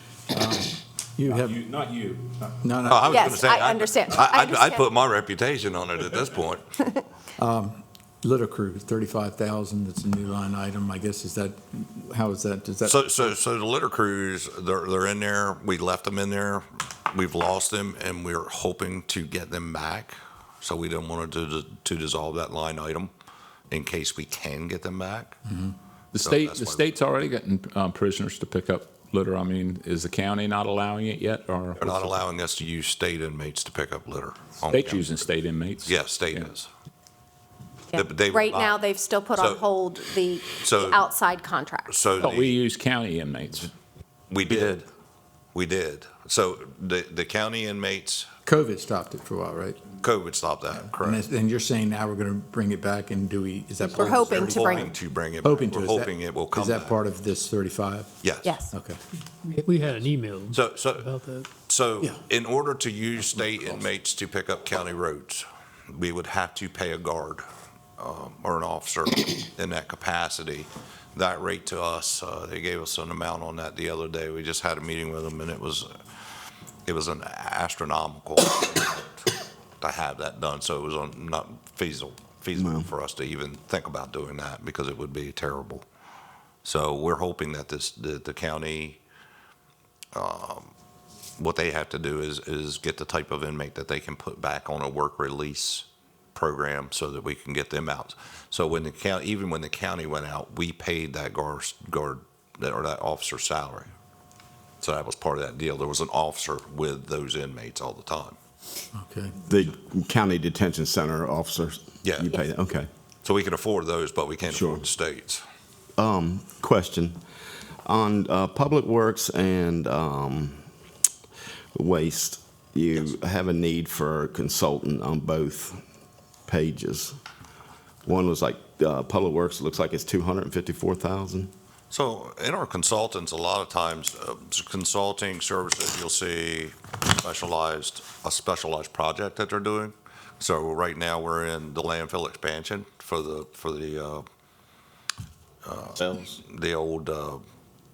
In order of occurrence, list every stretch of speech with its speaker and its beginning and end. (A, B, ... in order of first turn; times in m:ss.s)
0:00.3-0:01.6 A
0:01.3-0:02.3 B
0:02.6-0:03.2 A
0:02.8-0:06.6 C
0:03.1-0:04.8 D
0:07.4-0:13.2 A
0:12.8-0:23.1 C
0:23.7-0:25.4 C
0:26.1-0:32.2 B
0:26.2-0:26.9 C
0:31.8-0:35.1 C
0:34.6-0:36.5 B
0:35.8-0:36.7 C
0:37.9-0:42.1 D
0:37.9-0:38.8 C
0:39.3-0:39.6 C
0:40.6-0:41.1 C
0:41.9-0:42.6 C
0:42.2-0:43.7 B
0:44.3-0:44.9 C
0:45.6-0:48.3 C
0:48.5-0:49.8 A
0:50.0-0:51.3 C
0:51.0-0:54.4 A
0:53.9-0:55.0 D
0:54.0-0:57.0 C
0:55.4-0:58.1 A
0:58.2-0:58.6 C
0:58.4-0:58.7 D
0:58.7-0:59.0 A
0:59.4-1:01.5 E
1:00.5-1:07.4 C
1:08.0-1:15.9 C
1:16.9-1:19.3 C
1:19.8-1:25.8 C
1:22.6-1:22.9 F
1:26.6-1:29.0 C
1:30.1-1:30.7 C
1:31.4-1:43.9 C
1:44.8-1:48.4 C
1:48.9-1:49.4 A
1:49.4-1:52.9 F
1:52.0-1:52.3 C
1:53.2-1:55.4 C
1:54.5-1:54.9 F
1:56.0-1:57.2 F
1:57.8-2:00.6 F
2:01.8-2:05.8 F
2:06.4-2:07.2 F
2:08.1-2:11.5 F
2:11.9-2:24.2 C
2:25.6-2:27.4 C